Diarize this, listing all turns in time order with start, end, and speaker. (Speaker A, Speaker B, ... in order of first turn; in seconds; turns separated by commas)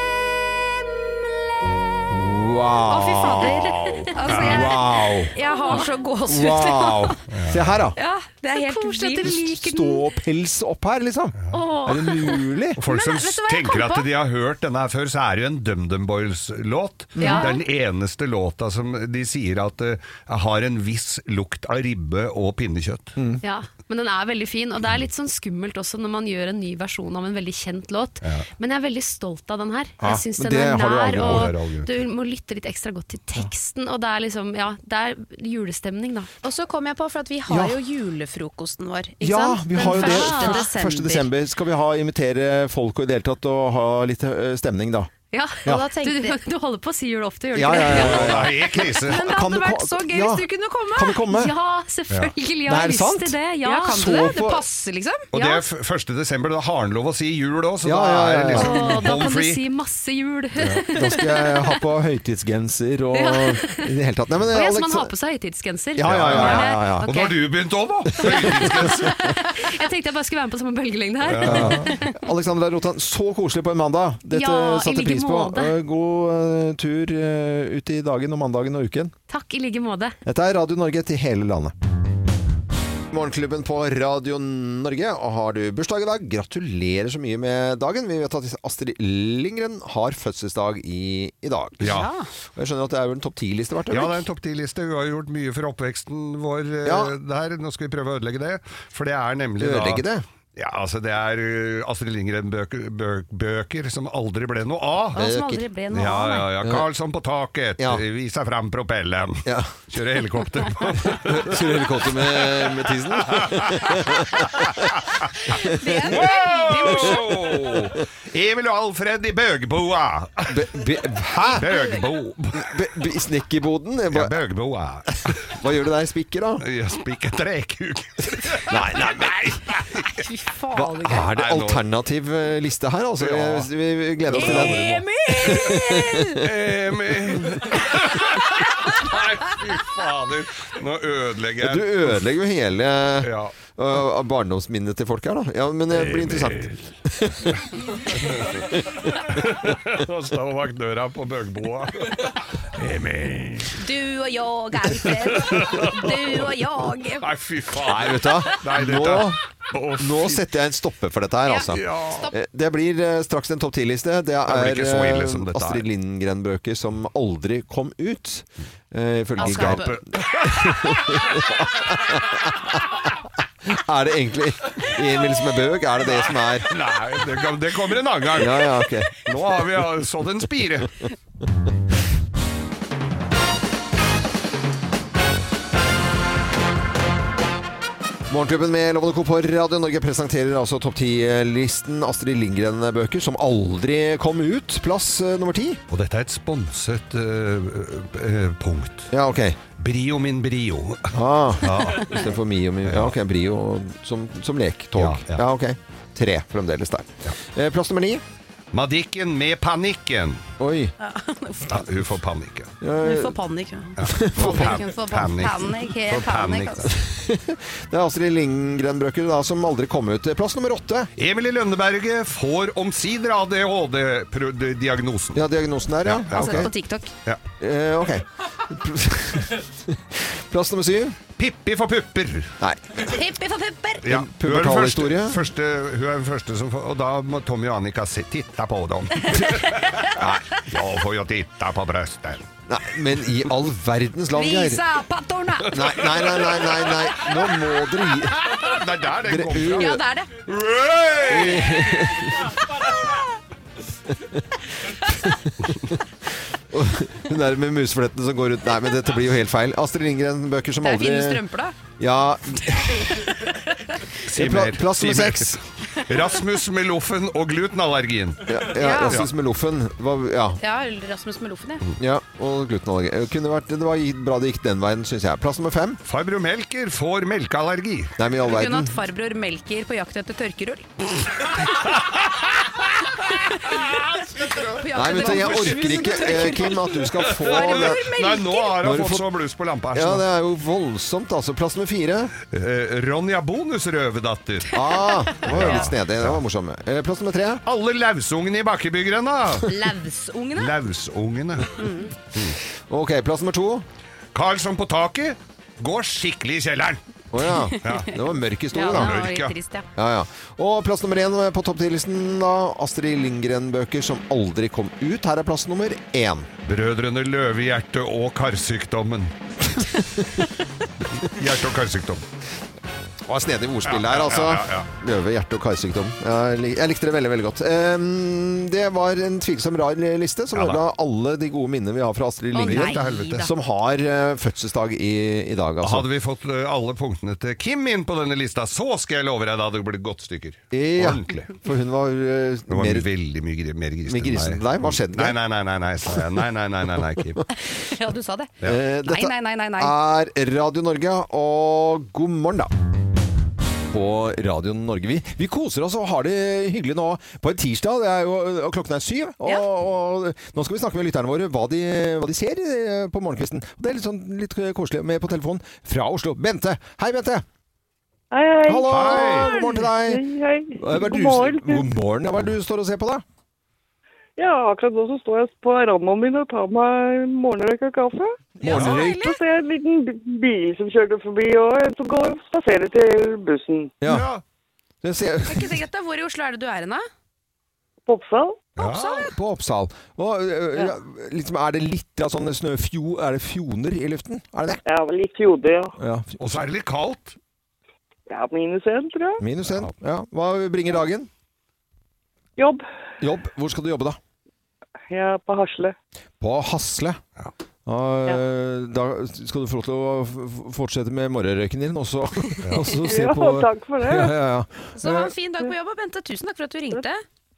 Speaker A: 2.1-5.3, Speaker B: 2.9-7.2, Speaker C: 4.2-4.7, Speaker D: 4.4-4.7, Speaker D: 5.5-5.9, Speaker A: 6.3-8.0, Speaker C: 7.3-7.8, Speaker B: 8.0-9.4, Speaker D: 8.1-10.1, Speaker A: 9.2-12.8, Speaker B: 11.5-12.0, Speaker D: 11.5-12.4, Speaker C: 12.8-23.1, Speaker B: 12.8-14.1, Speaker B: 17.2-17.6, Speaker D: 17.2-17.6, Speaker A: 23.2-23.4, Speaker D: 23.4-36.3, Speaker C: 28.2-28.5, Speaker A: 30.0-31.5, Speaker C: 31.2-32.0, Speaker B: 36.4-41.3, Speaker A: 37.5-37.8, Speaker A: 39.2-45.1, Speaker D: 39.8-40.7, Speaker D: 45.3-48.4, Speaker B: 45.6-46.4, Speaker A: 47.5-48.6, Speaker C: 47.9-49.2, Speaker B: 48.9-51.2, Speaker A: 49.1-51.5, Speaker D: 51.2-54.3, Speaker A: 52.6-53.4, Speaker B: 53.6-55.6, Speaker A: 53.9-54.6, Speaker C: 55.3-59.6, Speaker A: 57.8-58.7, Speaker D: 58.5-61.8, Speaker A: 60.9-65.1, Speaker D: 63.1-63.9, Speaker D: 64.5-67.4, Speaker A: 66.0-67.1, Speaker C: 66.0-69.2, Speaker D: 68.2-72.2, Speaker A: 68.2-69.1, Speaker C: 71.2-71.9, Speaker A: 71.4-79.1, Speaker D: 74.3-75.7, Speaker D: 79.3-80.2, Speaker A: 80.2-81.7, Speaker A: 83.1-92.0, Speaker C: 91.8-92.1, Speaker A: 92.5-94.2, Speaker C: 93.9-100.0, Speaker A: 96.8-97.1, Speaker A: 99.6-100.2, Speaker C: 100.5-105.2, Speaker B: 105.1-106.5, Speaker A: 105.2-105.6, Speaker C: 105.9-114.6, Speaker A: 109.4-109.7, Speaker A: 111.1-114.9, Speaker A: 115.5-116.2, Speaker B: 115.6-117.6, Speaker C: 116.0-120.9, Speaker A: 120.5-121.7, Speaker C: 121.4-122.8, Speaker B: 121.6-122.0, Speaker A: 122.5-124.3, Speaker C: 124.1-125.6, Speaker A: 125.4-126.6, Speaker C: 126.6-130.2, Speaker A: 128.7-129.6, Speaker B: 130.2-131.3, Speaker A: 130.7-136.4, Speaker C: 131.2-131.8, Speaker C: 133.2-133.7, Speaker C: 134.2-135.7, Speaker B: 134.3-136.4, Speaker C: 136.3-142.2, Speaker A: 141.6-147.6, Speaker C: 143.2-143.5, Speaker C: 145.9-146.8, Speaker C: 148.1-153.8, Speaker B: 153.8-157.3, Speaker C: 155.0-156.5, Speaker C: 157.2-160.4, Speaker A: 157.8-159.4, Speaker A: 160.0-172.9, Speaker B: 161.5-162.3, Speaker C: 161.7-162.3, Speaker C: 164.4-165.8, Speaker B: 169.4-170.0, Speaker C: 169.4-171.9, Speaker A: 173.7-176.7, Speaker C: 176.0-180.9, Speaker A: 178.3-179.2, Speaker A: 188.3-195.8, Speaker C: 195.9-199.1, Speaker A: 199.1-199.6, Speaker C: 199.8-202.3, Speaker A: 201.1-208.2, Speaker C: 202.8-203.1, Speaker C: 205.0-205.4, Speaker C: 208.7-210.4, Speaker A: 210.6-210.9, Speaker B: 211.0-211.9, Speaker C: 211.7-212.7, Speaker A: 212.8-213.3, Speaker B: 213.0-216.9, Speaker C: 214.0-217.0, Speaker A: 214.0-214.7, Speaker A: 217.0-221.1, Speaker C: 221.2-225.4, Speaker A: 225.3-226.7, Speaker C: 226.0-226.7, Speaker B: 226.3-227.1, Speaker A: 227.6-231.2, Speaker C: 231.4-232.6, Speaker B: 233.0-234.1, Speaker C: 234.0-242.5, Speaker A: 234.1-235.4, Speaker A: 240.2-240.4, Speaker A: 242.7-244.8, Speaker B: 244.3-246.0, Speaker A: 245.7-248.4, Speaker C: 245.7-246.8, Speaker C: 248.4-252.3, Speaker A: 249.2-250.0, Speaker B: 249.6-250.3, Speaker A: 251.2-252.6, Speaker A: 254.2-256.0, Speaker A: 256.7-261.4, Speaker B: 260.8-261.8, Speaker A: 262.0-263.2, Speaker C: 264.2-269.3, Speaker A: 264.3-265.6, Speaker A: 268.4-270.6, Speaker B: 268.7-269.2, Speaker B: 270.6-271.8, Speaker A: 272.0-276.0, Speaker C: 276.0-278.1, Speaker A: 278.2-278.9, Speaker B: 278.4-280.9, Speaker C: 281.8-282.4, Speaker B: 283.2-283.9, Speaker C: 283.8-286.5, Speaker B: 284.6-288.8, Speaker A: 284.9-288.0, Speaker C: 287.2-290.2, Speaker A: 288.8-289.2, Speaker A: 289.9-292.3, Speaker C: 292.5-294.8, Speaker A: 294.7-297.6, Speaker C: 295.3-296.4, Speaker B: 295.5-295.8, Speaker C: 297.6-299.8, Speaker B: 299.6-300.7, Speaker C: 300.6-302.6, Speaker B: 301.8-302.1, Speaker A: 302.9-303.8, Speaker C: 304.3-307.0, Speaker A: 307.3-309.2, Speaker B: 307.7-308.0, Speaker C: 307.8-308.1, Speaker B: 308.7-309.9, Speaker C: 308.9-309.5, Speaker A: 309.9-316.5, Speaker C: 316.6-319.8, Speaker C: 321.2-322.2, Speaker A: 323.3-336.1, Speaker C: 323.9-324.9, Speaker C: 330.5-330.8, Speaker B: 332.5-333.5, Speaker C: 332.6-333.5, Speaker C: 335.8-341.5, Speaker A: 340.7-343.1, Speaker C: 342.7-347.4, Speaker A: 344.1-345.4, Speaker B: 347.7-349.9, Speaker A: 348.6-352.7, Speaker A: 353.9-367.4, Speaker E: 368.3-371.9, Speaker A: 368.6-370.2, Speaker C: 368.9-369.5, Speaker A: 370.8-373.2, Speaker E: 374.4-383.9, Speaker A: 378.6-379.2, Speaker B: 378.6-379.4, Speaker C: 378.6-379.0, Speaker A: 384.0-384.3, Speaker C: 384.0-384.4, Speaker A: 385.0-385.8, Speaker B: 385.5-387.1, Speaker E: 388.1-388.7, Speaker C: 388.8-389.3, Speaker B: 388.8-389.3, Speaker A: 389.3-394.8, Speaker E: 394.8-395.9, Speaker A: 396.0-396.5, Speaker C: 396.4-397.4, Speaker E: 398.3-399.4, Speaker A: 399.4-401.3, Speaker E: 402.6-402.8, Speaker A: 403.2-404.2, Speaker E: 405.1-405.9, Speaker A: 406.4-407.2, Speaker A: 407.9-415.3, Speaker C: 412.6-412.9, Speaker E: 413.0-414.4, Speaker B: 414.9-417.2